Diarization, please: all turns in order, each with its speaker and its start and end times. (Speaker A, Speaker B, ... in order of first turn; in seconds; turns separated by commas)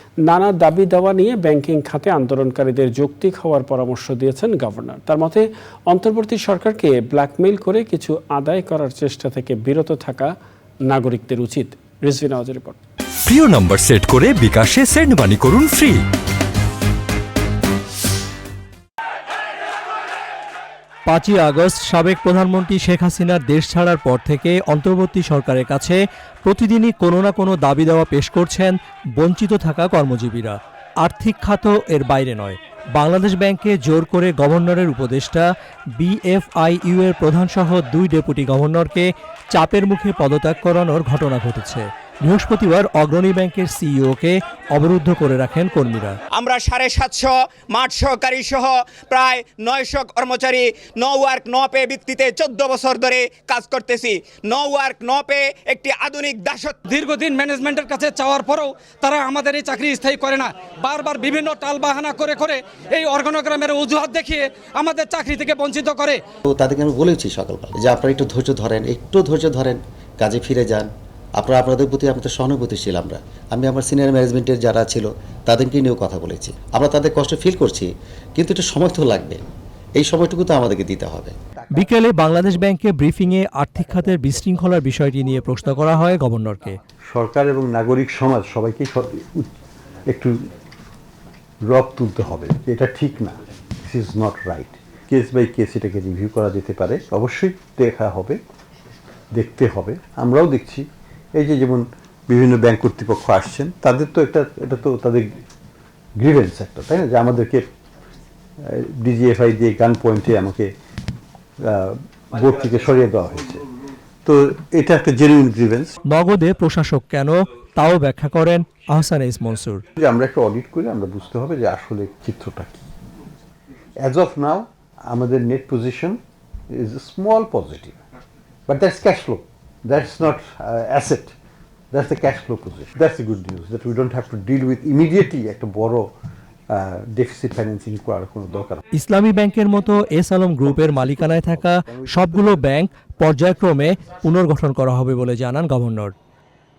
Speaker A: 0.2-10.3, Speaker A: 10.8-12.8, Speaker B: 13.3-16.0, Speaker C: 21.1-35.5, Speaker C: 36.0-46.2, Speaker D: 46.4-56.8, Speaker E: 56.9-66.2, Speaker F: 66.5-79.4, Speaker F: 80.0-81.4, Speaker G: 81.6-82.7, Speaker C: 81.7-86.8, Speaker G: 83.6-85.0, Speaker G: 87.1-89.5, Speaker G: 90.1-90.4, Speaker G: 91.6-98.4, Speaker G: 99.3-105.4, Speaker G: 106.2-107.7, Speaker G: 108.6-110.7, Speaker G: 111.6-113.6, Speaker G: 114.2-116.0, Speaker C: 116.1-119.8, Speaker G: 120.0-122.8, Speaker G: 124.0-126.2, Speaker G: 126.7-128.0, Speaker G: 128.7-131.3, Speaker G: 131.9-136.1, Speaker G: 136.7-138.8, Speaker C: 138.9-146.1, Speaker G: 141.4-142.6